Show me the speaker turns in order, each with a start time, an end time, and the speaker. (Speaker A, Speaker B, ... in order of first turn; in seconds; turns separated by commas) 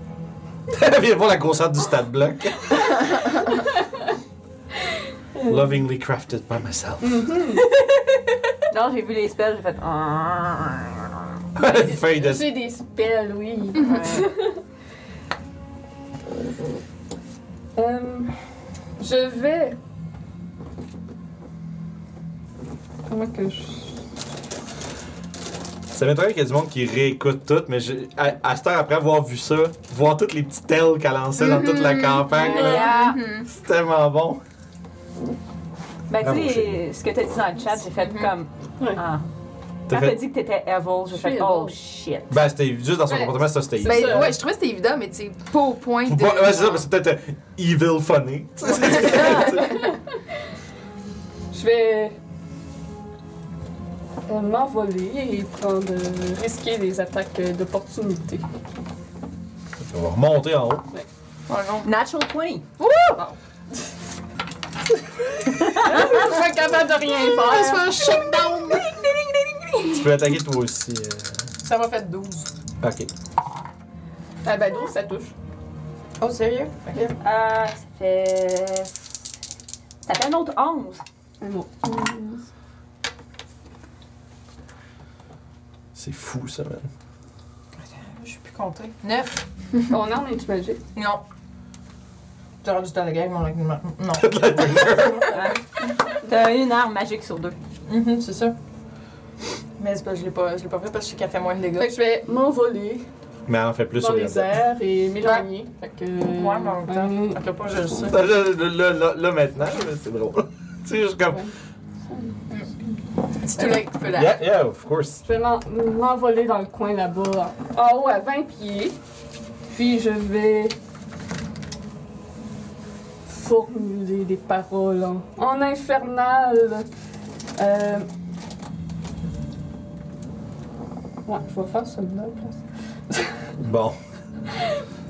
Speaker A: 0.7-3.0, Speaker B: 5.3-5.7, Speaker A: 5.5-7.3, Speaker B: 7.0-7.7, Speaker C: 7.5-11.2, Speaker A: 11.6-12.5, Speaker B: 11.8-14.6, Speaker C: 13.8-14.3, Speaker B: 17.8-18.3, Speaker B: 19.0-19.8, Speaker B: 23.1-24.0, Speaker A: 25.9-32.9, Speaker D: 31.4-33.5, Speaker C: 32.5-33.2, Speaker A: 33.5-34.4, Speaker C: 36.1-39.2, Speaker A: 36.2-36.8, Speaker D: 38.0-38.3, Speaker A: 39.9-40.2, Speaker C: 39.9-42.3, Speaker B: 41.1-41.7, Speaker A: 42.3-44.3, Speaker B: 43.1-44.3, Speaker D: 43.8-46.9, Speaker A: 46.0-49.9, Speaker B: 49.2-49.9, Speaker B: 51.5-52.1, Speaker B: 54.3-58.4, Speaker A: 59.9-60.8, Speaker E: 61.5-61.9, Speaker C: 61.8-62.7, Speaker B: 65.3-68.2, Speaker E: 67.5-68.2, Speaker D: 68.2-68.6, Speaker C: 68.4-70.1, Speaker A: 69.8-71.4, Speaker E: 71.6-72.5, Speaker A: 72.8-73.1, Speaker B: 74.4-75.3, Speaker E: 76.2-77.2, Speaker C: 77.2-79.1, Speaker C: 80.0-81.0, Speaker B: 81.4-82.4, Speaker A: 85.9-86.9, Speaker E: 87.9-89.4, Speaker B: 89.9-90.8, Speaker E: 90.9-91.2, Speaker E: 92.6-95.4, Speaker A: 94.1-95.4, Speaker C: 95.3-97.5, Speaker E: 97.9-98.5, Speaker E: 99.8-101.9, Speaker B: 101.8-103.1, Speaker A: 103.5-104.6, Speaker B: 104.0-107.4, Speaker E: 106.2-108.2, Speaker A: 108.1-111.4, Speaker B: 112.0-112.4, Speaker E: 113.4-114.4, Speaker A: 114.1-115.2, Speaker B: 115.2-119.0, Speaker B: 119.7-120.8, Speaker B: 123.3-126.9, Speaker B: 127.6-128.1, Speaker B: 131.2-133.3, Speaker A: 133.6-134.0